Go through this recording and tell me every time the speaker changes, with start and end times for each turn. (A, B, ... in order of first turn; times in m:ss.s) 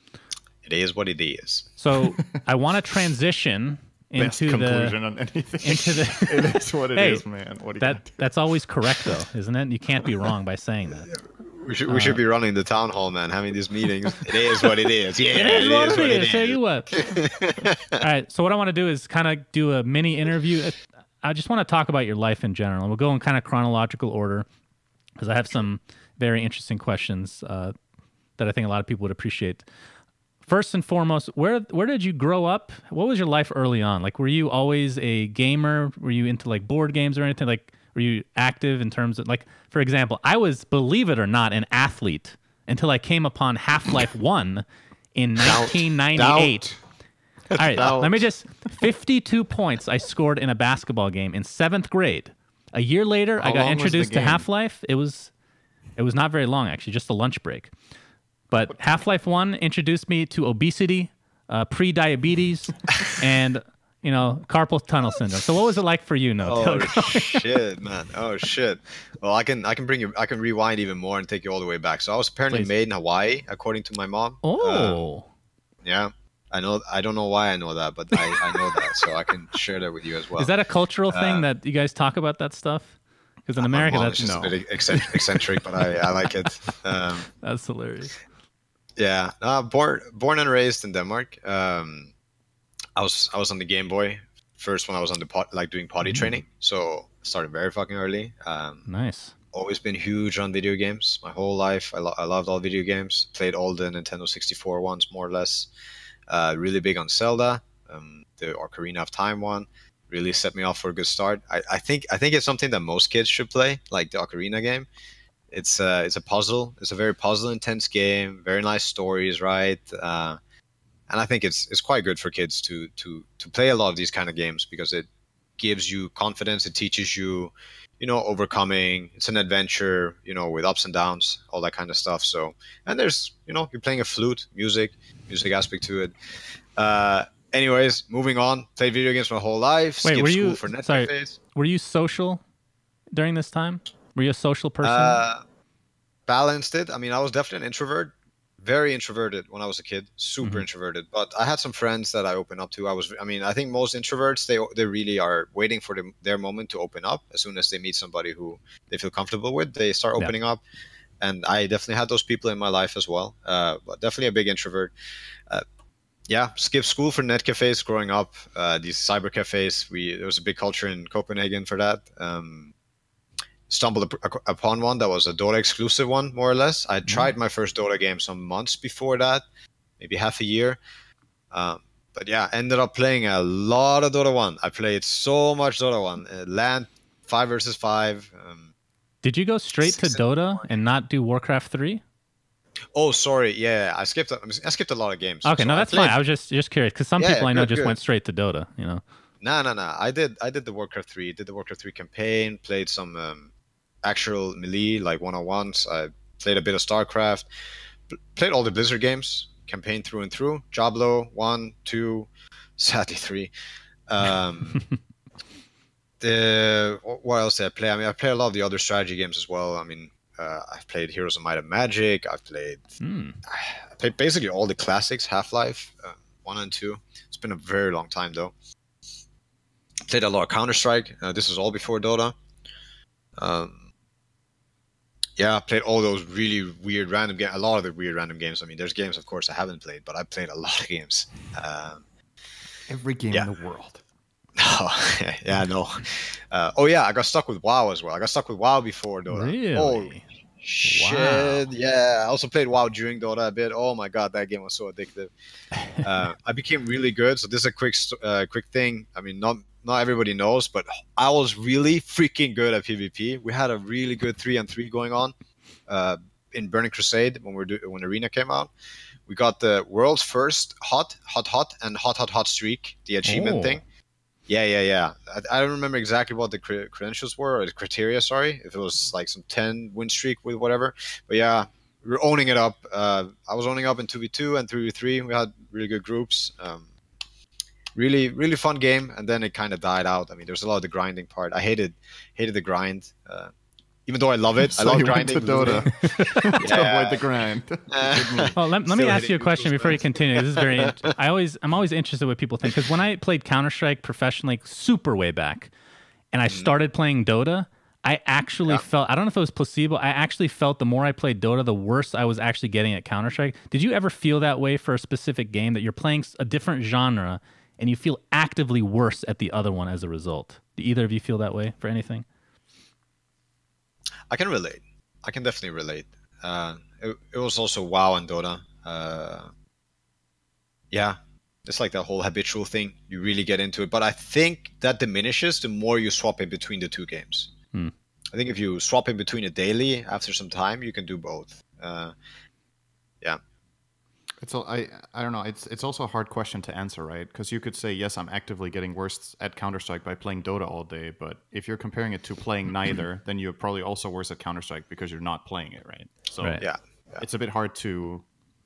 0:00.6-0:01.7 A
0:01.8-0:05.0 B
0:04.2-0:08.2 C
0:05.6-0:07.2 B
0:07.8-0:11.1 B
0:11.1-0:18.0 A
0:11.9-0:12.2 B
0:15.2-0:17.1 B
0:18.0-0:24.5 B
0:25.2-0:27.7 B
0:28.4-0:29.7 B
0:30.4-0:46.7 B
0:45.4-0:46.7 A
0:47.5-0:55.3 B
0:47.6-0:48.0 A
0:47.7-0:48.3 C
0:53.4-0:54.5 C
0:56.0-0:57.7 B
0:58.5-1:07.4 B
1:06.4-1:15.0 A
1:14.4-1:15.3 B
1:15.8-1:20.5 A
1:20.4-1:24.5 B
1:21.1-1:21.5 A
1:23.6-1:27.3 A
1:24.2-1:24.6 C
1:27.4-1:28.2 B
1:29.0-1:32.1 A
1:33.0-1:38.9 A
1:38.9-1:39.3 B
1:39.5-1:45.7 A
1:46.3-1:54.9 A
1:55.5-2:00.4 A
2:01.1-2:05.1 A
2:05.6-2:16.1 A
2:16.8-2:21.4 A
2:20.0-2:22.4 B
2:23.1-2:25.2 B
2:24.8-2:25.4 A
2:26.3-2:40.6 A
2:41.2-2:44.9 A
2:46.3-2:52.7 A
2:53.7-2:59.4 A
3:00.0-3:00.8 A
3:01.5-3:08.7 A
3:09.2-3:12.0 B
3:09.8-3:10.8 A
3:13.0-3:16.2 A
3:15.4-3:19.0 B
3:17.2-3:18.0 A
3:19.4-3:23.5 A
3:24.0-3:27.5 A
3:28.3-3:33.5 A
3:34.1-3:34.8 A
3:36.2-3:42.8 A
3:43.0-3:43.4 B
3:43.5-3:48.5 A
3:50.0-3:52.4 A
3:53.4-3:53.8 A
3:55.4-4:02.0 A
4:02.9-4:04.0 C
4:04.6-4:15.3 A
4:09.3-4:10.2 B
4:10.9-4:11.6 B
4:15.8-4:16.0 B
4:15.9-4:25.3 A
4:25.9-4:28.7 A
4:29.3-4:33.8 A
4:33.2-4:33.8 B
4:34.5-4:46.9 A
4:48.0-4:53.5 A
4:54.1-4:55.9 A
4:54.6-4:58.6 C
4:56.0-4:56.5 B
4:56.5-4:57.3 A
4:57.9-5:00.9 A
4:58.5-5:05.7 B
5:06.3-5:22.3 B
5:24.3-5:29.5 A
5:30.9-5:37.5 A
5:38.3-5:42.1 A
5:44.4-5:56.6 C
5:56.6-5:57.2 A
5:57.2-5:58.3 C